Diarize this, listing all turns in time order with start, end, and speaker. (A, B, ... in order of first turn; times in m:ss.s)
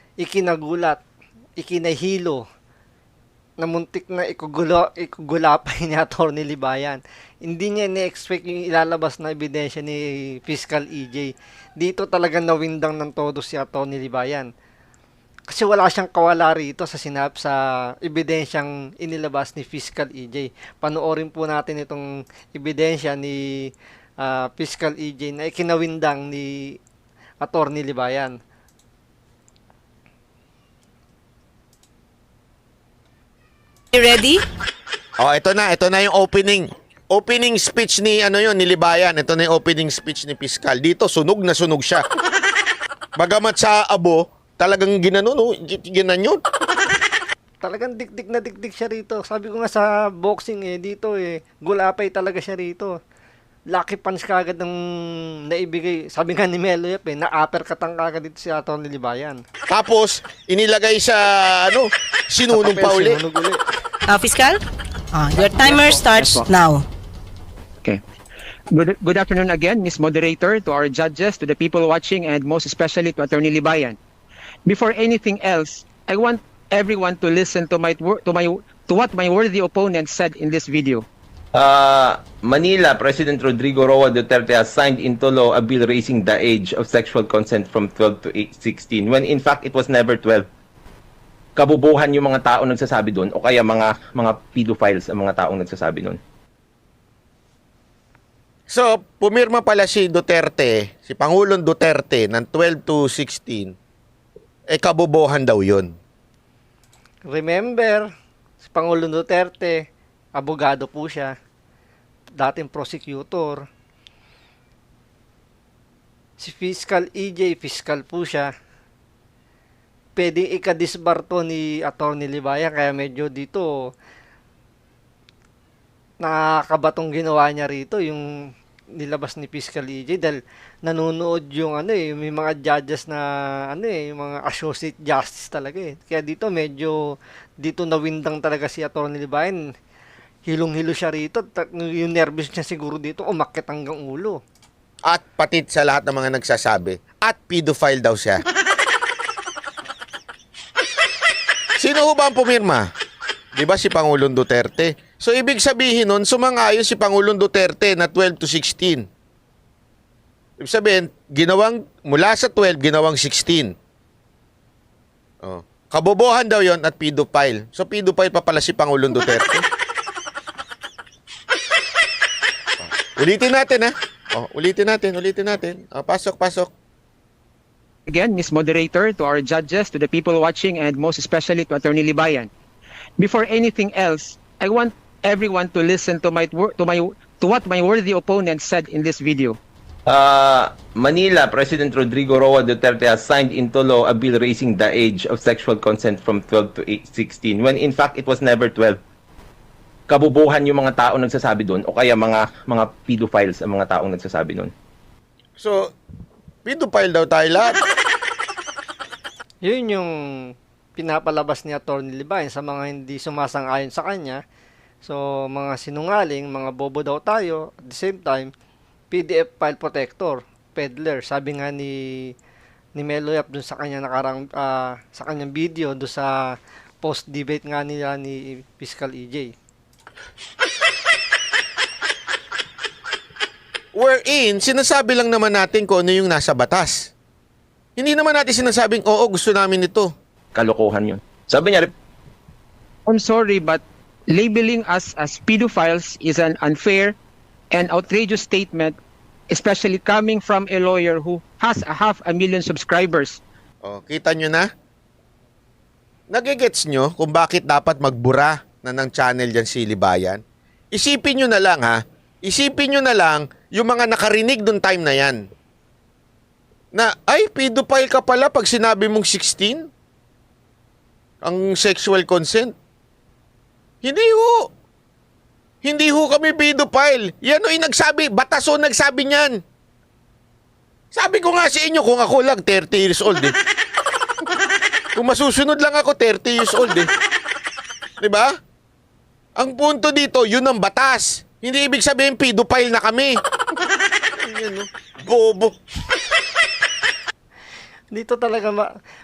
0:00.2-0:01.0 A
0:01.6-0:02.4 A
0:03.6-0:14.5 A
0:15.5-0:23.4 A
0:24.2-0:26.8 A
0:27.4-0:28.4 A
0:33.9-0:34.4 B
0:35.2-0:42.0 C
0:43.2-0:46.4 C
0:47.6-0:53.0 A
0:53.7-0:54.8 A
0:55.5-0:59.4 A
0:59.7-1:03.2 C
1:02.5-1:03.6 A
1:04.1-1:04.6 B
1:05.1-1:06.8 B
1:05.4-1:06.0 A
1:05.6-1:06.5 D
1:08.7-1:14.0 D
1:14.7-1:21.1 D
1:21.6-1:30.5 E
1:31.6-1:36.2 E
1:38.7-1:43.8 C
1:44.7-1:45.9 C
1:47.3-1:48.1 A
1:48.6-1:49.8 A
1:50.4-1:51.3 A
1:52.4-1:53.6 A
1:56.4-1:58.5 A
2:00.2-2:03.7 A
2:06.2-2:08.3 A
2:09.0-2:17.0 A
2:17.6-2:19.6 A
2:20.5-2:24.4 A
2:25.1-2:28.4 C
2:31.8-2:32.9 C
2:33.6-2:39.1 C
2:40.6-2:43.7 C
2:45.4-2:49.6 C
2:52.8-2:56.7 C
2:58.1-3:02.5 D
3:03.2-3:09.6 D
3:10.1-3:19.0 E
3:20.1-3:24.7 E
3:25.6-3:25.8 C
3:26.6-3:27.8 C
3:29.6-3:34.4 A
3:35.0-3:38.5 A
3:39.1-3:42.0 A
3:43.0-3:46.3 A
3:47.0-3:49.5 A
3:53.9-3:57.1 C
3:58.0-4:00.1 C
4:00.5-4:01.9 E
4:03.1-4:07.2 D
4:07.7-4:09.0 D
4:09.5-4:13.4 D
4:13.8-4:14.7 C
4:16.3-4:25.4 C
4:26.9-4:29.9 C
4:31.4-4:32.7 C
4:34.0-4:34.7 C
4:35.8-4:39.6 C
4:41.1-4:43.6 C
4:45.2-4:47.1 C
4:48.2-4:48.5 C
4:49.6-4:53.4 C
4:54.4-4:55.8 C
4:58.1-4:58.9 A